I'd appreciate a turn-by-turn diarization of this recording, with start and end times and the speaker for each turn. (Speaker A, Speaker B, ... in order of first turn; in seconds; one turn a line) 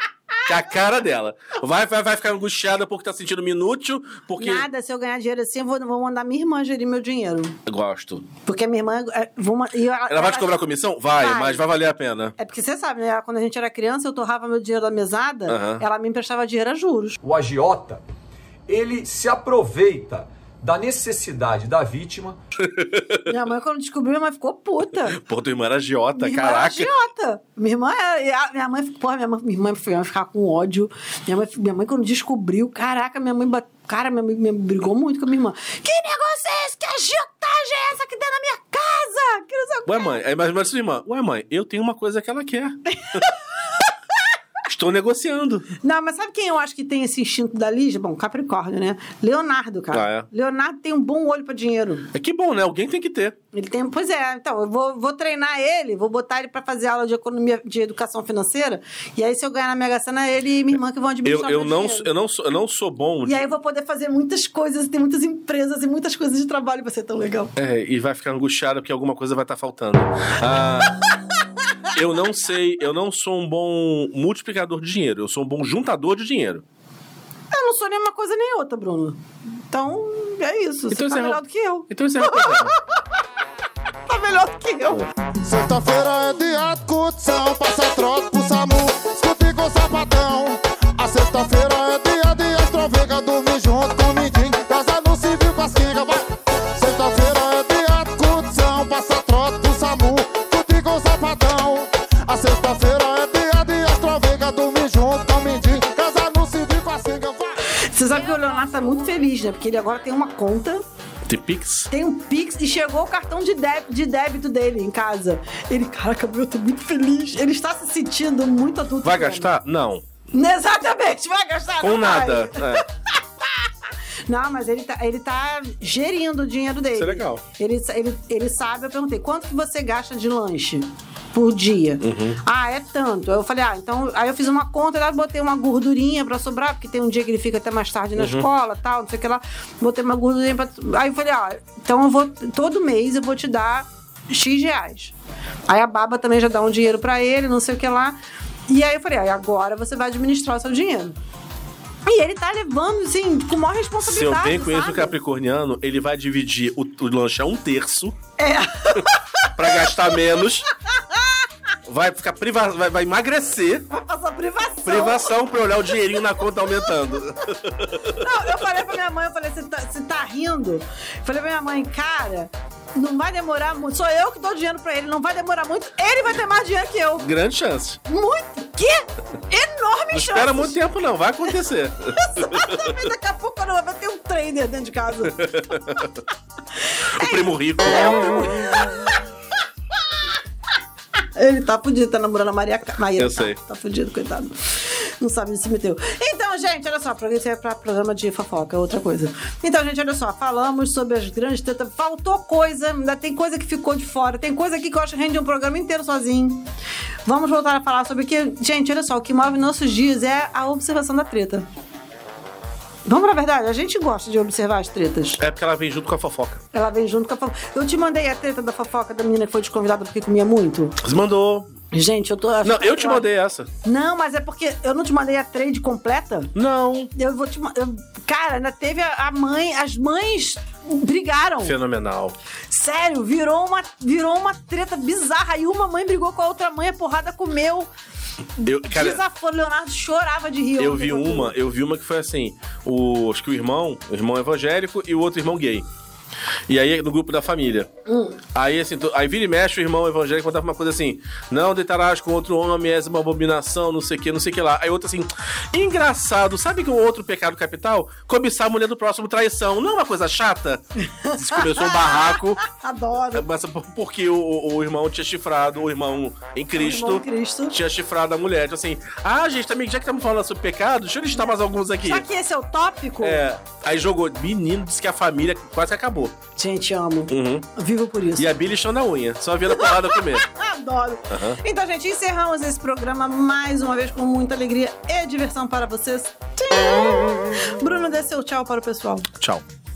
Speaker A: 0.5-4.7
Speaker B: 4.4-7.6
Speaker A: 7.7-8.3
Speaker B: 8.4-11.7
Speaker A: 10.1-12.4
Speaker B: 12.4-17.2
Speaker A: 15.5-15.8
Speaker C: 17.2-18.0
Speaker C: 18.7-22.4
Speaker A: 22.6-23.3
Speaker B: 23.3-25.2
Speaker A: 25.1-26.9
Speaker B: 26.2-40.2
Speaker A: 39.9-43.3
Speaker A: 44.6-45.7
Speaker B: 45.8-52.1
Speaker A: 49.9-50.3
Speaker A: 52.1-53.4
Speaker B: 53.5-62.1
Speaker A: 61.2-63.4
Speaker B: 63.2-67.5
Speaker A: 67.6-70.9
Speaker A: 71.9-76.6
Speaker B: 77.5-82.8
Speaker A: 80.9-82.8
Speaker B: 84.1-85.1
Speaker D: 85.4-107.5
Speaker B: 107.7-110.8
Speaker A: 111.3-111.9
Speaker B: 111.9-119.5
Speaker A: 119.0-120.0
Speaker B: 120.3-122.8
Speaker A: 121.8-122.8
Speaker B: 124.3-145.1
Speaker A: 127.0-127.4
Speaker A: 132.0-132.4
Speaker A: 138.2-138.5
Speaker B: 145.7-148.2
Speaker B: 148.7-151.2
Speaker B: 152.1-155.2
Speaker A: 154.0-158.2
Speaker B: 158.4-159.5
Speaker A: 159.6-160.7
Speaker A: 161.9-163.9
Speaker B: 163.9-165.3
Speaker A: 164.8-168.3
Speaker B: 168.2-177.3
Speaker A: 177.2-178.0
Speaker B: 178.1-180.8
Speaker A: 180.1-182.9
Speaker B: 182.2-185.5
Speaker A: 185.3-186.2
Speaker B: 187.0-189.2
Speaker A: 187.2-188.3
Speaker B: 191.4-206.7
Speaker A: 193.2-193.6
Speaker B: 207.3-211.7
Speaker B: 213.1-215.4
Speaker A: 215.4-216.6
Speaker B: 216.7-221.0
Speaker A: 221.0-221.7
Speaker B: 221.9-223.3
Speaker A: 222.6-223.7
Speaker B: 223.8-226.5
Speaker A: 226.6-227.1
Speaker B: 227.1-231.7
Speaker A: 231.6-232.3
Speaker B: 232.7-237.9
Speaker B: 238.6-241.5
Speaker A: 238.6-239.2
Speaker A: 240.8-245.9
Speaker A: 246.7-247.9
Speaker B: 248.1-248.4
Speaker A: 248.5-262.6
Speaker B: 261.1-263.5
Speaker A: 263.3-272.2
Speaker B: 266.8-267.8
Speaker B: 272.0-273.4
Speaker A: 273.2-276.4
Speaker B: 276.6-278.5
Speaker A: 277.3-277.7
Speaker A: 278.4-280.5
Speaker B: 279.7-289.3
Speaker A: 281.3-281.6
Speaker A: 289.4-289.6